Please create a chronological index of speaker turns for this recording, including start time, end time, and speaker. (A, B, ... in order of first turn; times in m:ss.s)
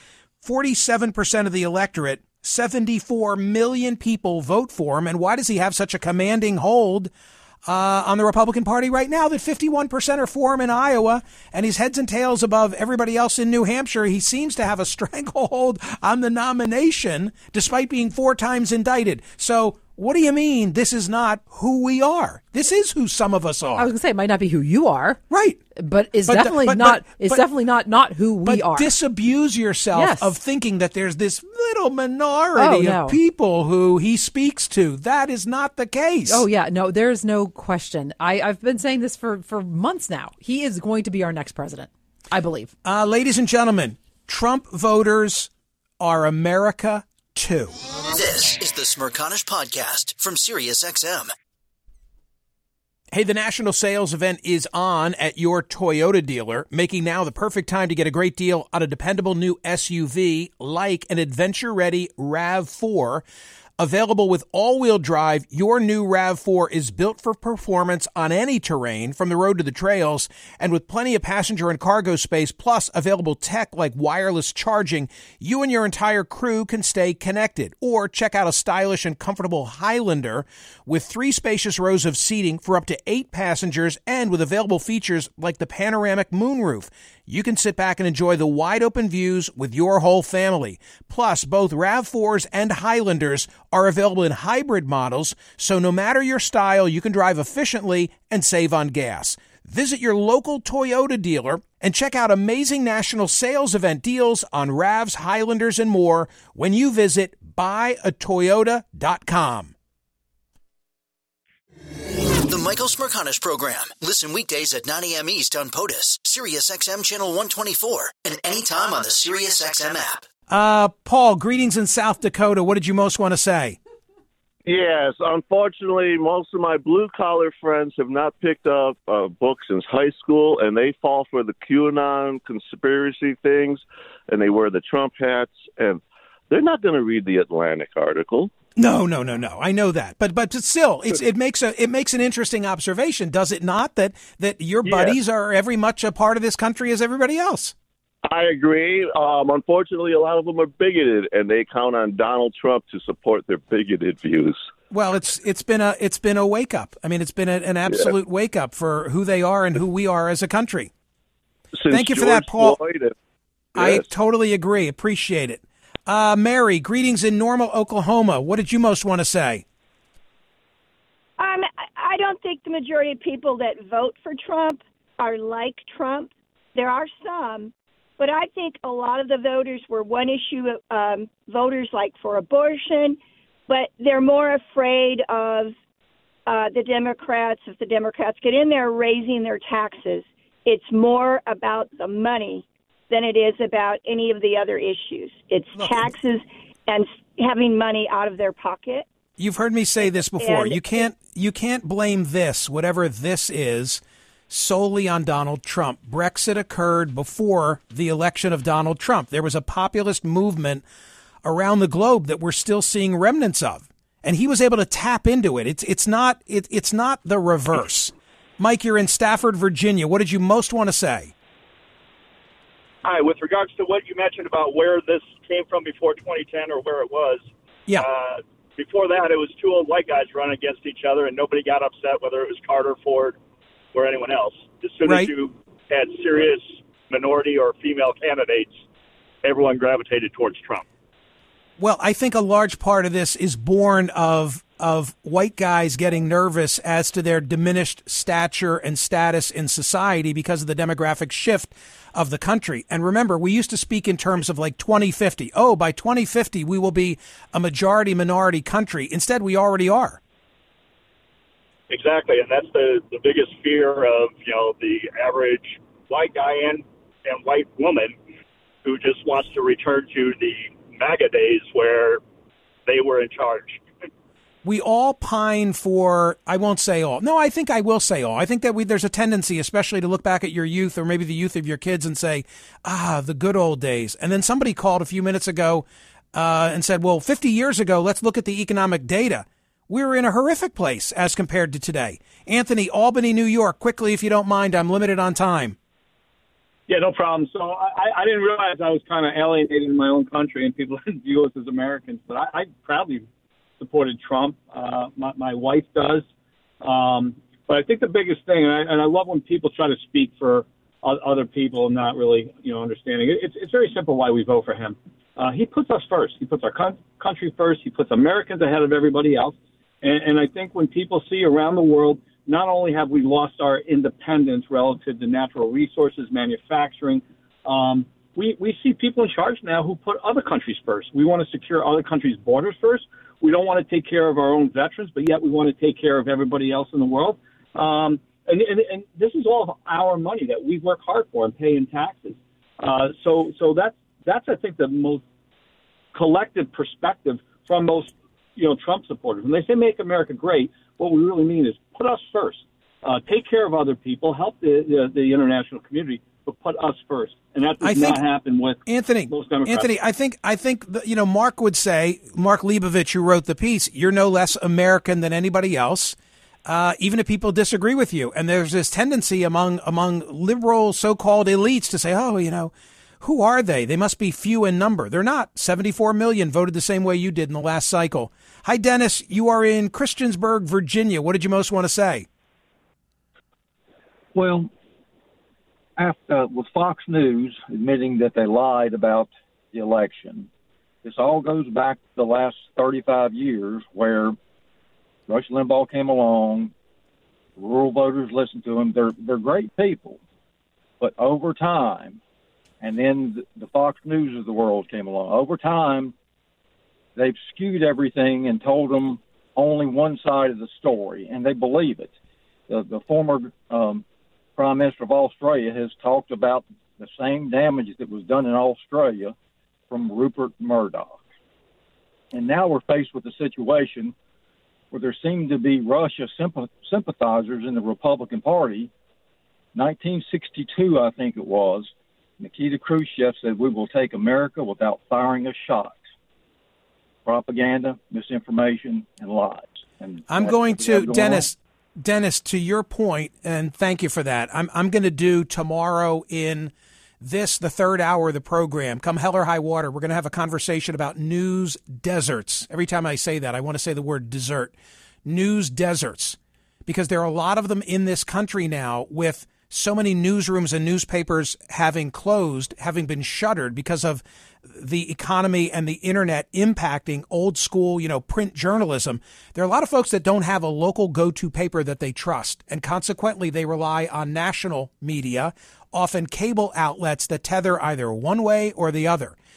0:00.4-0:07.1 A
0:07.7-0:23.9 A
0:23.8-0:25.2 B
0:25.3-0:25.6 A
0:25.8-0:28.9 B
0:26.3-0:27.5 A
0:28.4-0:36.4 A
0:29.9-0:30.3 B
0:32.6-0:33.2 B
0:36.3-0:42.7 B
0:42.8-0:47.8 A
0:48.1-0:51.3 C
0:53.1-1:03.2 A
1:03.8-1:49.7 A
1:52.4-2:00.3 C
2:00.5-2:03.8 A
2:04.6-2:18.5 D
2:18.8-2:27.8 A
2:24.8-2:25.2 D
2:28.2-2:34.7 D
2:34.9-2:40.9 A
2:37.9-2:38.1 D
2:41.7-2:43.1 D
2:41.9-2:42.8 A
2:43.8-2:49.6 A
2:43.8-2:44.1 D
2:51.4-3:05.7 E
3:06.5-3:19.1 E
3:15.8-3:16.0 A
3:19.4-3:30.8 A
3:20.4-3:21.0 E
3:31.4-3:41.3 A
3:43.0-3:53.4 F
3:53.9-3:58.8 F
3:55.1-3:55.3 A
3:59.4-4:00.8 F
4:01.8-4:20.2 A
4:21.9-4:28.2 F
4:28.8-4:32.2 F
4:32.9-4:33.8 F
4:34.6-4:55.8 A
4:56.9-5:03.2 G
5:03.8-5:06.2 G
5:06.8-5:45.2 G
5:46.1-5:59.9 G
5:57.8-5:58.2 A
5:58.9-6:22.3 A
6:24.3-6:24.7 H
6:26.0-6:30.5 H
6:31.0-6:34.4 H
6:35.3-6:36.7 H
6:37.6-6:40.2 H
6:41.0-6:42.2 H
6:42.8-6:46.1 H
6:47.2-6:52.1 H
6:52.7-6:54.0 H
6:54.6-6:59.4 H
6:59.9-7:01.2 H
7:02.3-7:04.1 H
7:04.9-7:08.9 H
7:09.7-7:16.0 H
7:17.2-7:21.5 H
7:20.3-7:34.7 A
7:35.2-7:59.4 A